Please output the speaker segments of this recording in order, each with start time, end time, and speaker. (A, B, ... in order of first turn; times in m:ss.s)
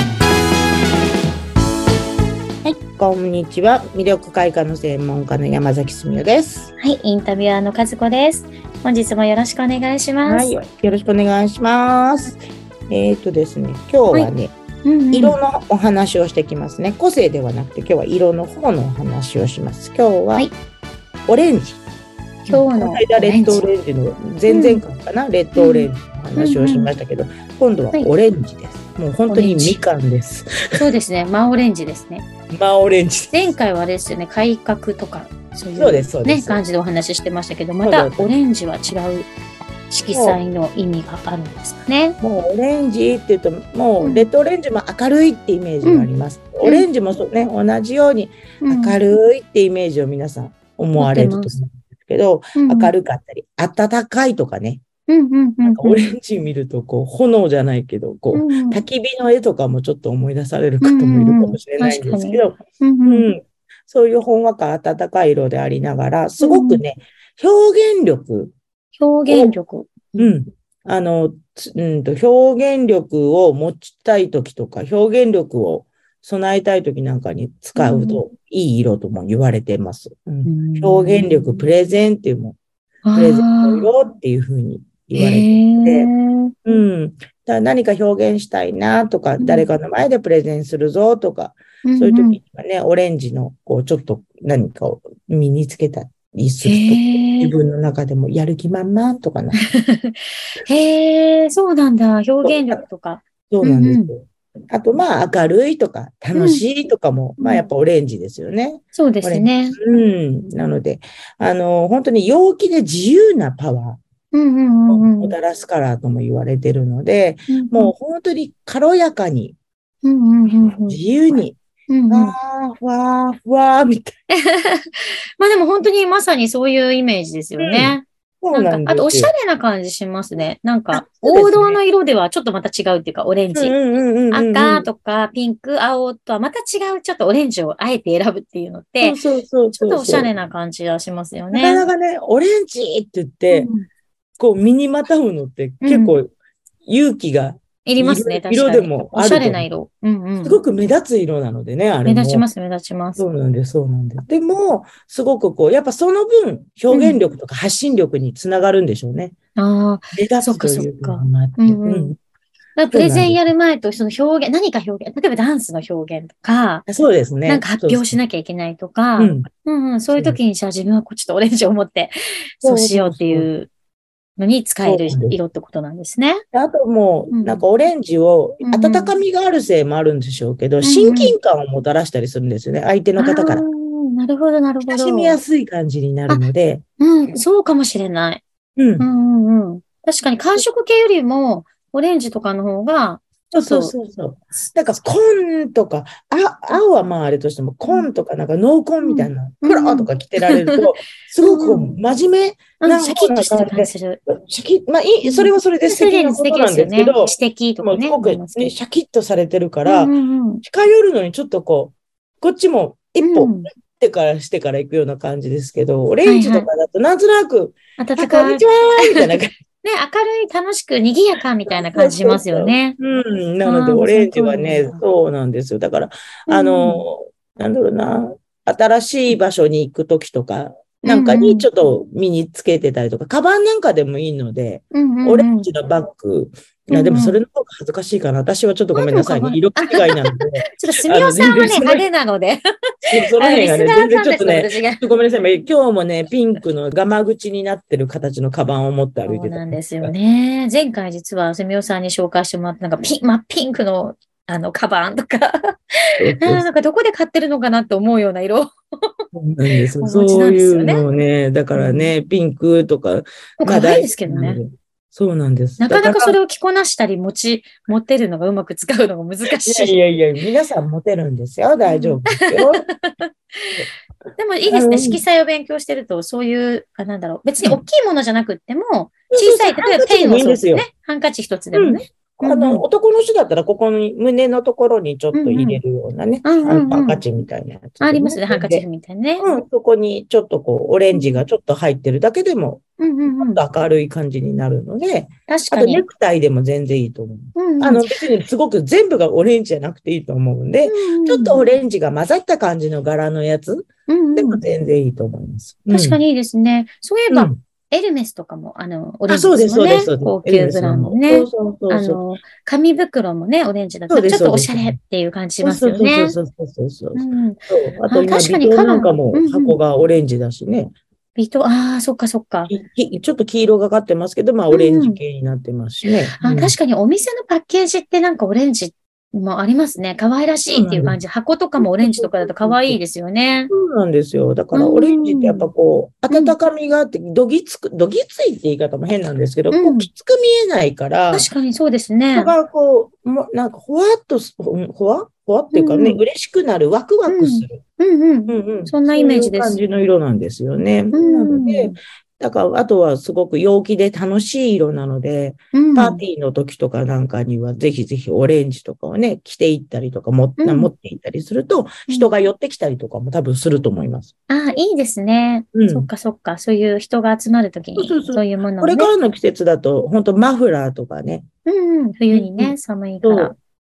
0:02.6-0:06.7 A
0:06.8-0:10.5 B
0:10.2-0:12.4 A
0:12.9-0:14.5 A
0:14.8-0:15.4 B
0:15.1-0:20.5 A
0:21.3-0:21.8 A
0:22.4-0:30.8 A
0:22.5-0:23.6 B
0:24.5-0:24.8 B
0:25.5-0:26.9 B
0:29.3-0:29.8 B
0:30.8-0:32.2 B
0:32.5-0:33.5 A
0:33.3-0:39.3 B
0:35.8-0:36.6 A
0:37.8-0:38.3 A
0:39.9-0:42.2 B
0:40.1-0:40.4 A
0:42.2-0:54.8 A
0:44.0-0:44.3 B
0:45.8-0:46.1 B
0:48.6-0:49.0 B
0:51.0-0:51.5 B
0:52.6-0:52.9 B
0:55.1-0:56.1 B
0:55.6-1:08.5 A
0:58.3-0:58.8 B
1:00.8-1:03.3 B
1:06.4-1:06.8 B
1:09.0-1:10.3 B
1:09.3-1:09.5 A
1:10.2-1:22.6 A
1:17.8-1:18.2 B
1:20.4-1:21.7 B
1:23.0-1:23.9 B
1:23.1-1:26.1 A
1:25.2-1:26.5 B
1:26.6-1:39.6 A
1:29.4-1:29.7 B
1:31.8-1:32.4 B
1:36.6-1:37.5 B
1:39.6-1:44.1 B
1:42.4-1:42.8 A
1:43.5-1:54.0 A
1:46.3-1:46.6 B
1:47.4-1:47.7 B
1:48.9-1:49.8 B
1:54.3-1:55.4 B
1:54.9-1:59.6 A
1:57.5-1:57.9 B
2:00.0-2:01.0 B
2:00.8-2:01.6 A
2:01.9-2:02.3 B
2:02.1-2:04.1 A
2:04.3-2:13.8 B
2:07.6-2:09.3 A
2:10.9-2:11.8 A
2:13.5-2:14.9 A
2:14.3-2:19.2 B
2:19.0-2:20.3 A
2:19.7-2:21.9 B
2:21.5-2:23.7 A
2:23.5-2:23.9 B
2:24.4-2:26.3 A
2:25.8-2:26.2 B
2:26.8-2:29.6 A
2:27.8-2:30.6 B
2:30.4-2:32.4 A
2:32.0-2:33.2 B
2:33.2-2:39.3 A
2:36.9-2:37.2 B
2:39.6-2:42.2 B
2:40.1-2:42.2 A
2:42.8-2:46.9 B
2:42.9-2:43.5 A
2:46.9-2:48.2 A
2:47.4-2:53.7 B
2:49.2-2:49.5 A
2:50.1-2:50.4 A
2:52.6-2:53.5 A
2:54.4-2:56.4 B
2:54.8-2:55.4 A
2:56.5-3:03.6 A
2:57.3-2:57.6 B
2:58.6-2:59.1 B
3:00.8-3:01.3 B
3:03.2-3:05.4 B
3:04.8-3:06.8 A
3:07.0-3:08.4 B
3:08.8-3:09.1 A
3:09.0-3:13.9 B
3:13.5-3:39.5 A
3:19.0-3:20.8 B
3:21.4-3:21.9 B
3:22.8-3:24.2 B
3:25.2-3:28.7 B
3:29.8-3:30.6 B
3:33.2-3:33.7 B
3:36.2-3:36.7 B
3:38.0-3:39.3 B
3:39.8-3:43.0 B
3:41.7-4:02.0 A
3:43.6-3:45.0 B
3:46.5-3:47.0 B
3:51.0-3:51.7 B
3:54.9-3:55.7 B
3:56.9-3:57.4 B
3:58.9-4:05.0 B
4:03.1-4:10.1 A
4:09.2-4:19.2 B
4:16.2-4:16.7 A
4:19.3-4:26.4 A
4:20.0-4:21.0 B
4:21.7-4:22.1 B
4:23.6-4:24.6 B
4:25.8-4:30.0 B
4:29.4-4:32.8 A
4:31.8-4:33.7 B
4:34.4-4:42.8 B
4:34.7-4:35.2 A
4:39.3-4:40.8 A
4:41.7-4:48.8 A
4:45.3-4:45.8 B
4:46.4-4:47.2 B
4:48.0-4:49.5 B
4:49.4-5:06.2 A
4:51.1-4:51.4 B
4:53.0-4:53.6 B
4:55.5-4:56.0 B
4:57.6-4:58.2 B
5:00.8-5:01.6 B
5:04.1-5:04.6 B
5:05.9-5:16.4 B
5:07.3-5:07.6 A
5:09.3-5:12.2 A
5:14.1-5:15.0 A
5:15.6-5:20.9 A
5:17.1-5:19.8 B
5:21.4-5:22.7 B
5:22.7-5:26.7 A
5:24.7-5:25.2 B
5:26.4-5:33.7 B
5:30.7-5:31.2 A
5:31.8-5:33.0 A
5:33.7-5:41.5 A
5:34.7-5:35.7 B
5:36.3-5:36.6 B
5:39.7-5:40.1 B
5:41.3-5:42.5 B
5:42.3-5:47.8 A
5:45.7-5:46.2 B
5:47.3-5:49.8 B
5:48.5-6:04.3 A
5:51.1-5:52.0 B
5:55.7-5:56.2 B
6:00.6-6:00.9 B
6:04.5-6:09.1 B
6:05.7-6:06.1 A
6:08.0-6:11.4 A
6:11.6-6:13.6 B
6:12.3-6:13.5 A